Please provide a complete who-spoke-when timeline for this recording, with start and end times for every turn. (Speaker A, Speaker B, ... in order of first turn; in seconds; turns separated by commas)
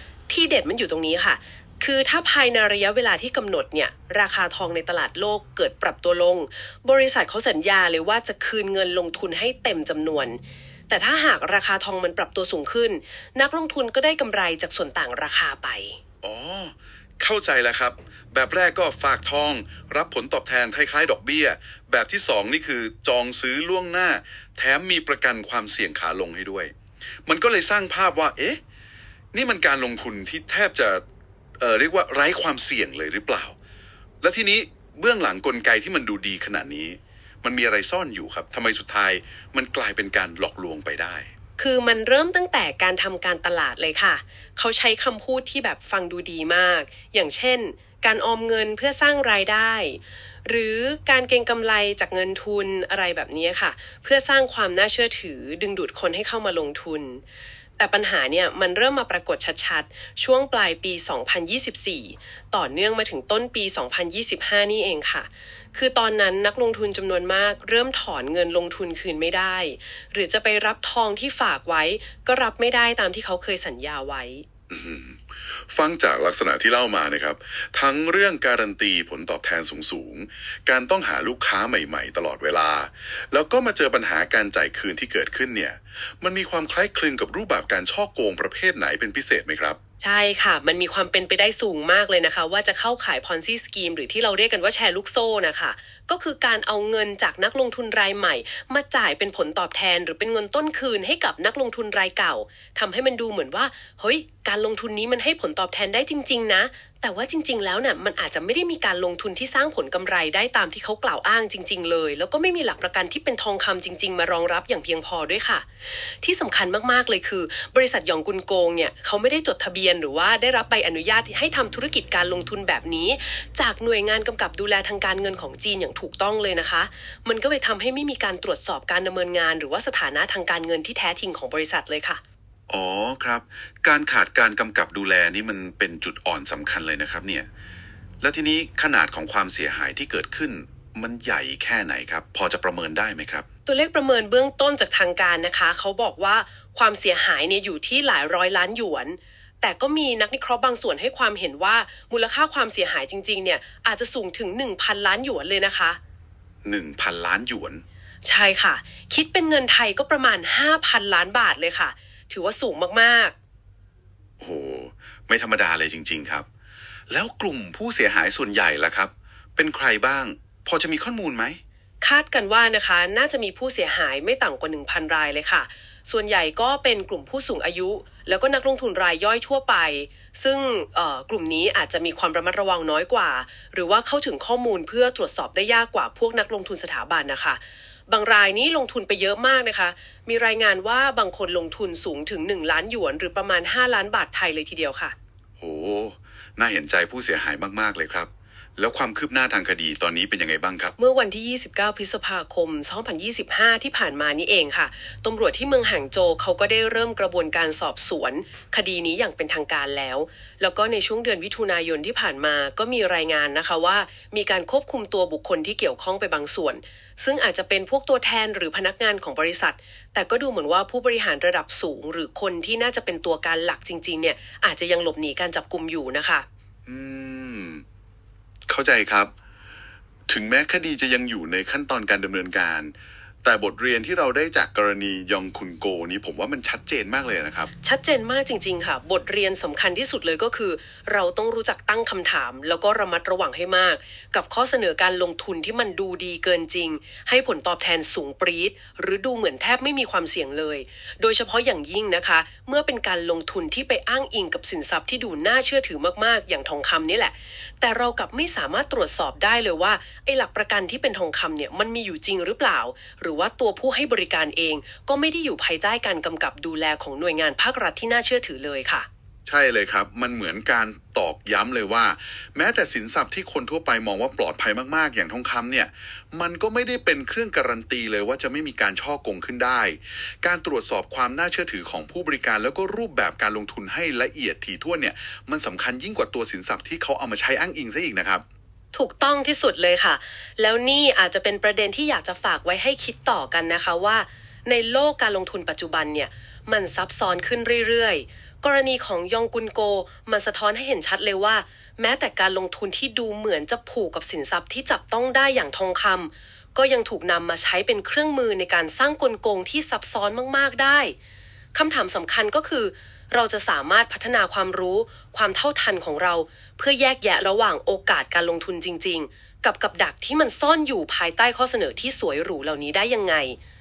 Speaker A: 0.3-16.0, Speaker B: 16.2-26.7, Speaker B: 27.2-28.6, Speaker B: 29.3-31.0, Speaker B: 31.6-33.5, Speaker B: 34.2-41.3, Speaker A: 41.6-57.2, Speaker A: 57.8-74.5, Speaker B: 74.7-89.8, Speaker A: 90.0-132.2, Speaker B: 132.7-137.5, Speaker B: 138.2-143.4, Speaker A: 143.7-156.0, Speaker B: 156.6-157.8, Speaker A: 158.2-163.3, Speaker B: 164.4-166.4, Speaker B: 167.1-171.6, Speaker A: 172.0-195.1, Speaker B: 195.6-200.9, Speaker A: 201.0-226.4, Speaker B: 226.8-227.8, Speaker B: 228.7-229.3, Speaker B: 230.3-237.7, Speaker A: 237.8-269.1, Speaker B: 269.5-288.4, Speaker A: 288.9-311.1, Speaker A: 311.7-323.6